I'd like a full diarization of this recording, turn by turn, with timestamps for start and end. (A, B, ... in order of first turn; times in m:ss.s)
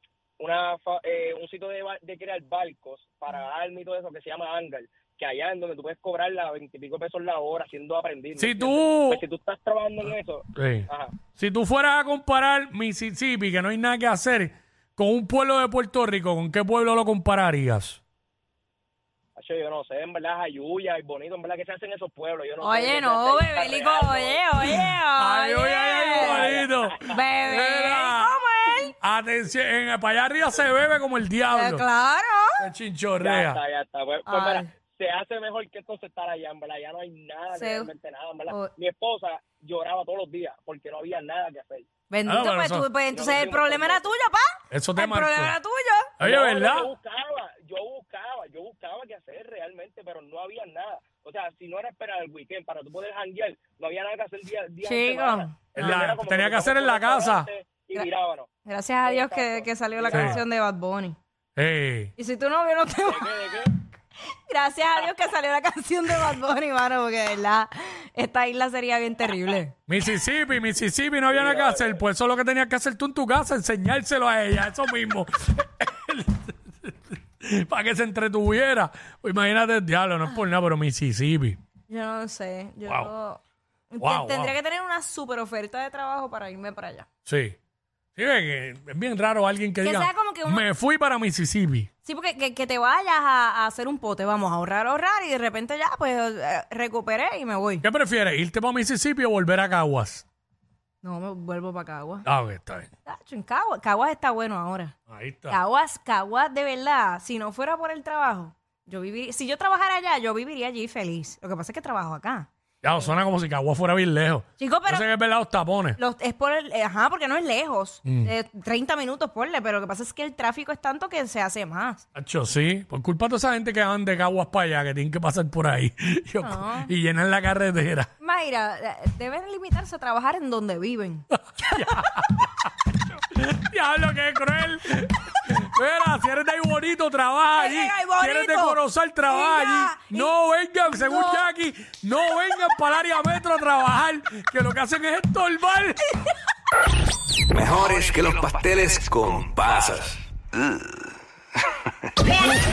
0:00.4-0:11.1 A
0:08.4-0:09.2 B
0:10.5-0:18.0 B
0:19.4-0:24.4 A
0:22.6-0:28.9 C
0:25.2-0:28.4 B
0:26.1-0:27.1 A
0:29.0-0:31.8 B
0:31.5-0:32.6 C
0:32.6-0:33.6 B
0:33.2-0:41.9 A
0:34.3-0:34.7 C
0:37.5-0:37.9 C
0:42.1-0:46.1 C
0:42.2-0:42.9 B
0:43.1-0:44.0 A
0:44.7-0:45.6 B
0:46.2-0:46.9 B
0:46.2-0:58.5 A
0:54.8-0:56.0 C
0:55.8-0:57.5 B
0:58.6-1:01.2 C
0:59.0-1:00.4 A
1:00.1-1:00.4 B
1:01.6-1:02.1 B
1:02.2-1:03.3 C
1:03.0-1:03.7 A
1:04.5-1:09.7 C
1:09.9-1:21.6 B
1:11.3-1:12.0 A
1:21.9-1:23.4 C
1:22.8-1:23.1 B
1:23.9-1:27.0 C
1:24.0-1:24.5 B
1:27.2-1:27.6 B
1:28.2-1:31.9 B
1:29.8-1:30.6 C
1:32.0-1:37.8 C
1:37.8-1:40.2 B
1:41.0-1:42.2 C
1:42.2-1:42.9 B
1:43.1-1:44.9 C
1:45.1-1:45.6 B
1:45.5-1:52.5 C
1:52.8-1:56.0 B
1:54.6-1:55.1 C
1:56.0-2:02.0 C
1:58.0-1:58.3 B
2:02.1-2:08.1 B
2:06.4-2:06.9 C
2:08.2-2:12.0 C
2:11.3-2:26.1 B
2:17.6-2:20.3 C
2:20.9-2:21.5 C
2:27.5-2:30.2 D